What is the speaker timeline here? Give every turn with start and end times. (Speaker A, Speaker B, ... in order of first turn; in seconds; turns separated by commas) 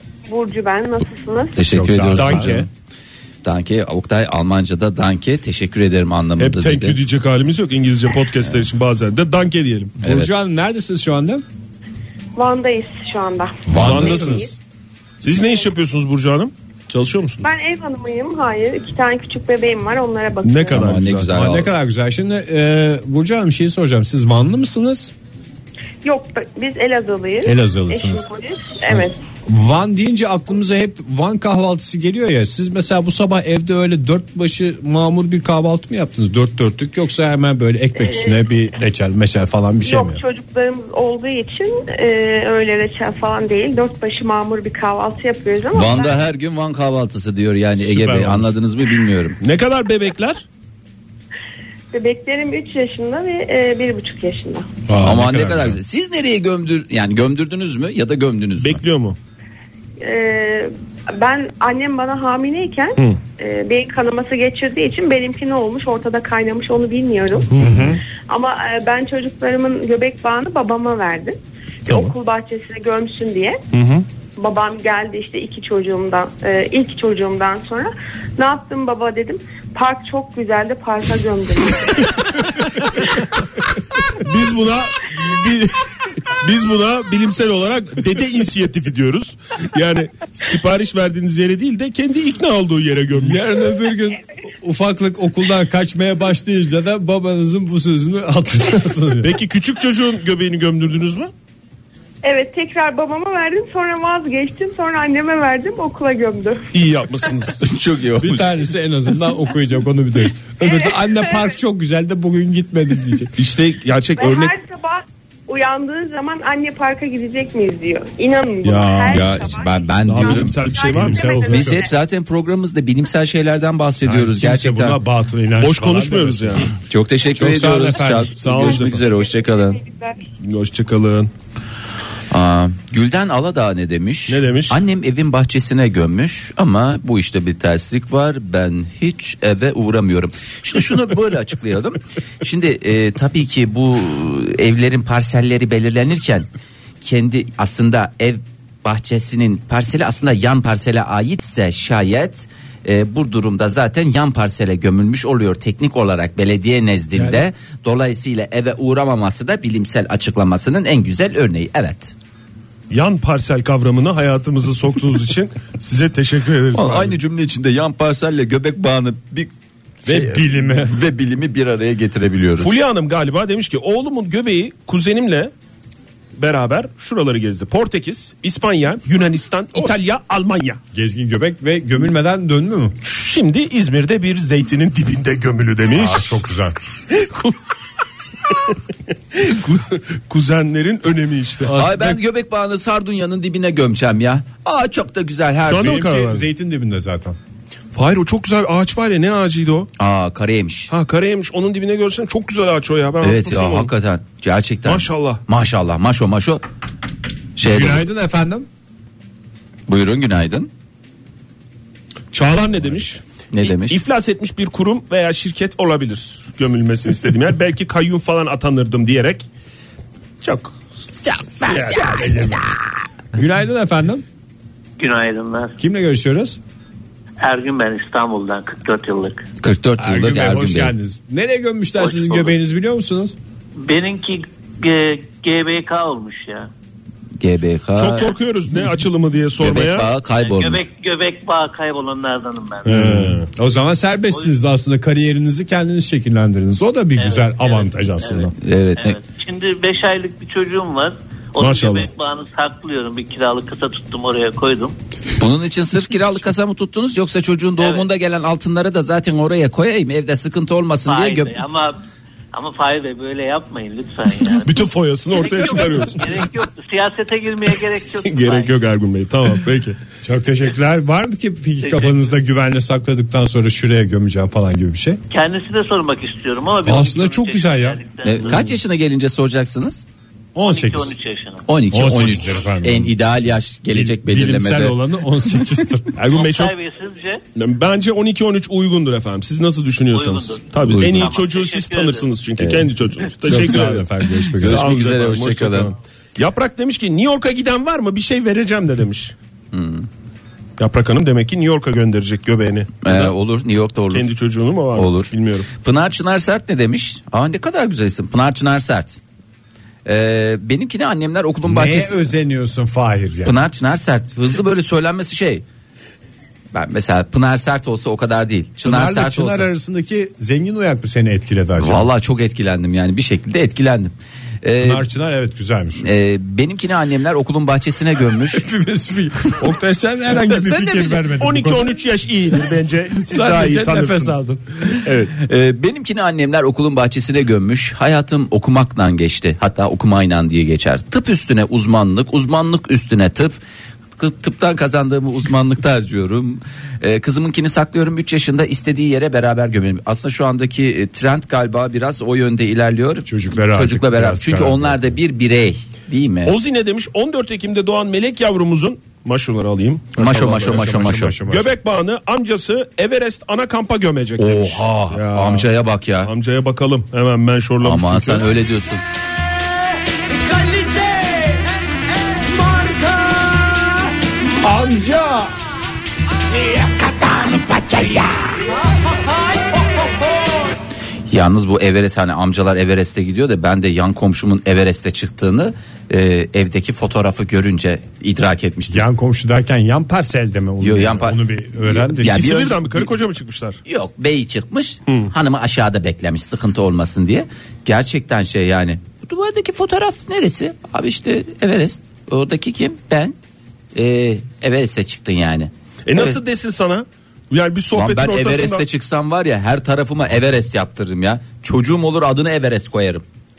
Speaker A: 0.3-1.6, Speaker B: 1.6-2.7, Speaker C: 1.6-2.6, Speaker D: 2.1-2.7, Speaker B: 3.4-7.0, Speaker D: 6.4-9.9, Speaker B: 10.0-10.3, Speaker C: 10.0-11.4, Speaker A: 12.4-14.5, Speaker B: 13.7-14.2, Speaker C: 13.7-14.5, Speaker D: 13.8-14.5, Speaker D: 15.2-17.5, Speaker A: 15.3-15.6, Speaker A: 17.4-20.9, Speaker D: 20.4-21.3, Speaker B: 20.7-21.7, Speaker C: 21.3-25.1, Speaker A: 26.0-29.2, Speaker C: 27.4-28.3, Speaker C: 28.9-40.2, Speaker A: 38.0-38.4, Speaker A: 39.8-46.2, Speaker B: 45.7-49.4, Speaker C: 47.8-48.6, Speaker D: 49.4-50.5, Speaker A: 51.9-54.7, Speaker C: 54.9-55.8, Speaker B: 55.0-58.8, Speaker D: 58.6-59.2, Speaker A: 60.0-67.5, Speaker D: 67.5-68.0, Speaker C: 67.6-68.0, Speaker A: 68.3-73.6, Speaker D: 73.7-74.0, Speaker A: 74.4-82.1, Speaker D: 84.1-93.4, Speaker C: 93.1-99.3, Speaker D: 99.2-101.3, Speaker A: 102.2-106.7, Speaker D: 106.7-107.6, Speaker B: 107.6-108.6, Speaker C: 108.2-113.4, Speaker A: 110.6-111.4, Speaker D: 113.4-114.5, Speaker A: 114.2-121.9, Speaker C: 118.6-119.3, Speaker B: 119.1-120.6, Speaker D: 120.1-121.2, Speaker C: 121.0-121.9, Speaker B: 121.5-125.0, Speaker C: 124.0-126.7, Speaker D: 125.6-126.7, Speaker B: 126.8-129.8, Speaker C: 127.3-129.0, Speaker D: 128.4-129.0, Speaker A: 129.1-130.2, Speaker D: 130.4-131.3, Speaker B: 132.3-146.5, Speaker D: 134.3-134.8, Speaker B: 147.0-162.1, Speaker D: 162.9-167.2, Speaker B: 166.7-169.5, Speaker B: 170.0-172.7, Speaker C: 170.1-171.0, Speaker D: 172.6-175.5, Speaker D: 176.4-180.8, Speaker C: 180.9-183.0, Speaker D: 183.0-186.4, Speaker C: 185.9-186.8, Speaker D: 187.1-187.6, Speaker D: 188.5-188.8, Speaker D: 189.3-191.8, Speaker C: 191.7-192.2, Speaker B: 191.8-196.0, Speaker D: 195.7-196.5, Speaker C: 195.8-197.4, Speaker D: 197.9-199.9, Speaker B: 200.0-200.9, Speaker D: 200.9-203.9, Speaker B: 203.2-206.6, Speaker D: 204.9-205.4, Speaker B: 207.6-208.0, Speaker C: 207.6-208.7, Speaker B: 209.9-210.7, Speaker D: 212.3-219.4, Speaker B: 213.5-214.0, Speaker D: 220.4-220.8, Speaker B: 221.2-222.6, Speaker C: 221.6-222.6, Speaker C: 223.3-224.2, Speaker E: 225.0-225.8, Speaker C: 225.8-226.6, Speaker E: 227.4-229.5, Speaker B: 229.6-230.9, Speaker C: 230.0-233.4, Speaker E: 232.0-232.6, Speaker E: 233.8-236.7, Speaker B: 237.4-238.3, Speaker D: 238.0-240.1, Speaker B: 239.6-240.9, Speaker E: 240.4-242.9, Speaker D: 242.8-243.5, Speaker C: 242.9-248.5, Speaker E: 244.3-244.6, Speaker E: 247.2-255.0, Speaker B: 248.6-249.2, Speaker D: 251.6-252.1, Speaker B: 255.4-261.6, Speaker E: 257.8-258.1, Speaker E: 261.1-262.0, Speaker E: 262.5-268.7, Speaker D: 264.6-266.5, Speaker D: 268.2-270.0, Speaker C: 270.2-275.2, Speaker E: 271.8-272.2, Speaker E: 275.3-278.7, Speaker C: 276.8-278.0, Speaker B: 278.2-280.1, Speaker C: 280.6-281.2, Speaker E: 280.6-281.7, Speaker B: 281.7-285.0, Speaker C: 281.9-286.2, Speaker D: 286.2-286.7, Speaker E: 286.3-287.4, Speaker D: 287.6-299.4, Speaker E: 290.1-292.3, Speaker B: 290.9-291.3, Speaker B: 292.6-292.9, Speaker C: 293.4-294.9, Speaker B: 294.6-295.9, Speaker B: 299.7-300.1, Speaker D: 300.8-303.4, Speaker B: 303.0-304.3, Speaker D: 304.1-305.7, Speaker B: 304.9-309.2, Speaker B: 310.1-312.3, Speaker C: 311.6-313.6, Speaker B: 313.4-315.6, Speaker B: 316.7-319.7, Speaker C: 318.8-322.1, Speaker B: 321.8-325.1, Speaker C: 324.8-326.1, Speaker B: 326.0-328.6, Speaker C: 328.4-332.0, Speaker D: 330.3-335.3, Speaker C: 333.2-334.6, Speaker B: 335.4-343.6, Speaker B: 344.2-356.6, Speaker C: 353.3-355.2, Speaker D: 356.5-360.8, Speaker B: 360.2-361.4, Speaker C: 360.2-361.7, Speaker D: 361.5-365.7, Speaker B: 364.4-366.3, Speaker D: 366.2-368.6, Speaker B: 367.8-369.0, Speaker C: 374.6-375.4, Speaker B: 377.6-378.2, Speaker B: 381.3-389.1, Speaker C: 388.9-392.6, Speaker B: 390.8-393.1, Speaker D: 392.2-393.8, Speaker B: 393.9-403.4, Speaker B: 403.9-406.4, Speaker D: 406.1-408.9, Speaker B: 407.9-413.2